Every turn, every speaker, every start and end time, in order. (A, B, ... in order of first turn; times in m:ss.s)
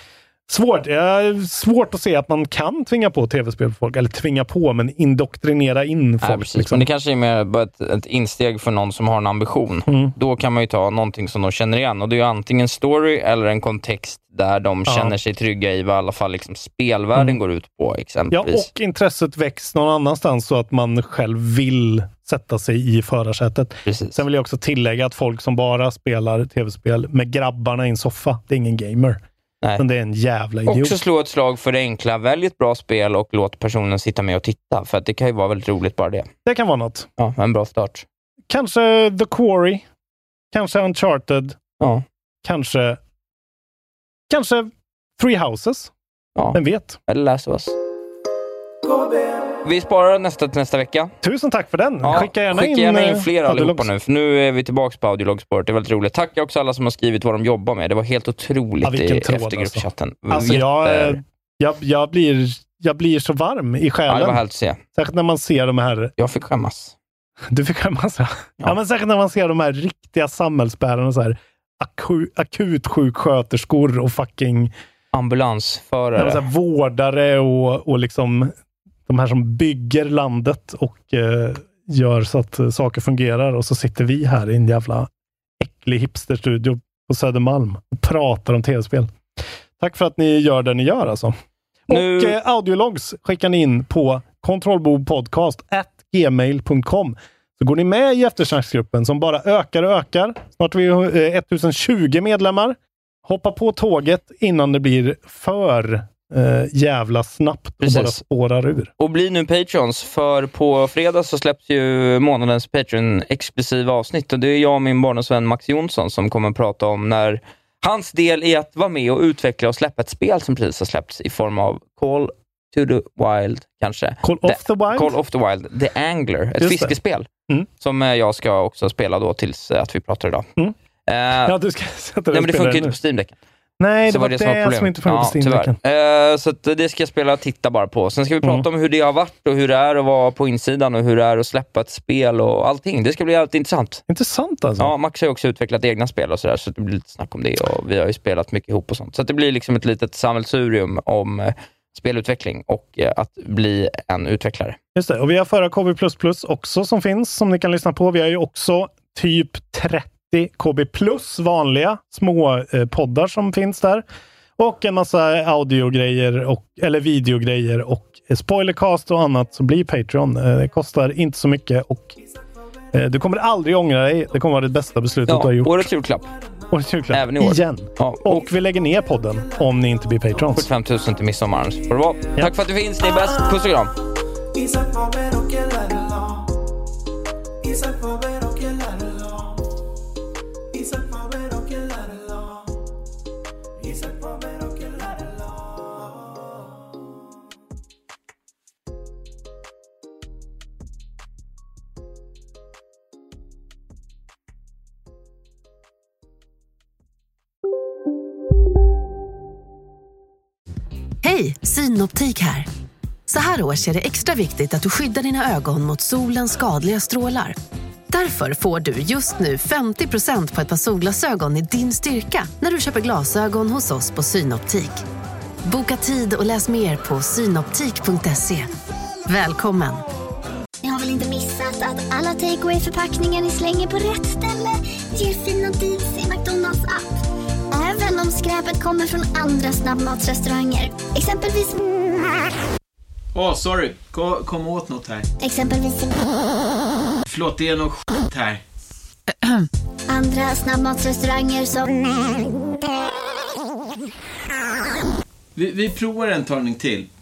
0:00.5-0:06.8 A
0:06.2-0:18.7 B
0:09.9-0:10.1 A
0:14.9-0:15.2 A
0:18.3-0:29.2 A
0:23.8-0:24.2 B
0:29.8-0:31.0 A
0:30.6-0:36.3 B
0:36.4-0:37.1 A
0:37.2-0:38.0 B
0:38.5-0:39.8 A
0:40.5-0:41.6 A
0:41.8-0:42.0 B
0:42.4-0:43.0 A
0:44.3-0:45.9 A
0:46.4-0:47.7 B
0:46.5-0:47.0 A
0:49.6-0:51.1 B
0:51.2-0:53.9 A
0:52.0-1:01.2 B
0:58.8-1:04.4 A
1:04.1-1:04.8 B
1:04.9-1:06.1 A
1:06.2-1:06.9 B
1:07.5-1:14.7 A
1:15.1-1:16.4 B
1:16.2-1:18.5 A
1:19.1-1:25.1 A
1:25.6-1:29.1 A
1:29.8-1:31.3 A
1:31.9-1:48.9 A
1:31.9-1:32.4 B
1:47.8-1:48.2 B
1:49.0-2:07.3 B
2:04.2-2:05.1 A
2:06.6-2:06.9 A
2:07.8-2:10.5 B
2:11.1-2:11.5 B
2:11.4-2:13.0 A
2:12.3-2:13.4 B
2:13.8-2:15.8 A
2:14.1-2:24.0 B
2:24.1-2:24.9 A
2:24.8-2:34.8 B
2:34.9-2:44.0 A
2:44.6-2:52.2 A
2:52.9-2:55.9 A
2:55.3-2:56.3 B
2:56.7-3:00.7 A
2:57.1-2:58.4 B
3:00.5-3:04.0 B
3:31.2-3:32.7 C
3:33.3-3:37.6 C
3:38.1-3:45.0 C
3:45.6-3:48.7 C
3:49.3-3:50.0 C
3:50.8-3:57.0 D
3:57.7-4:01.8 D
4:03.3-4:05.3 E
4:05.4-4:06.3 D
4:07.3-4:08.6 E
4:10.1-4:12.5 D
4:15.6-4:17.1 E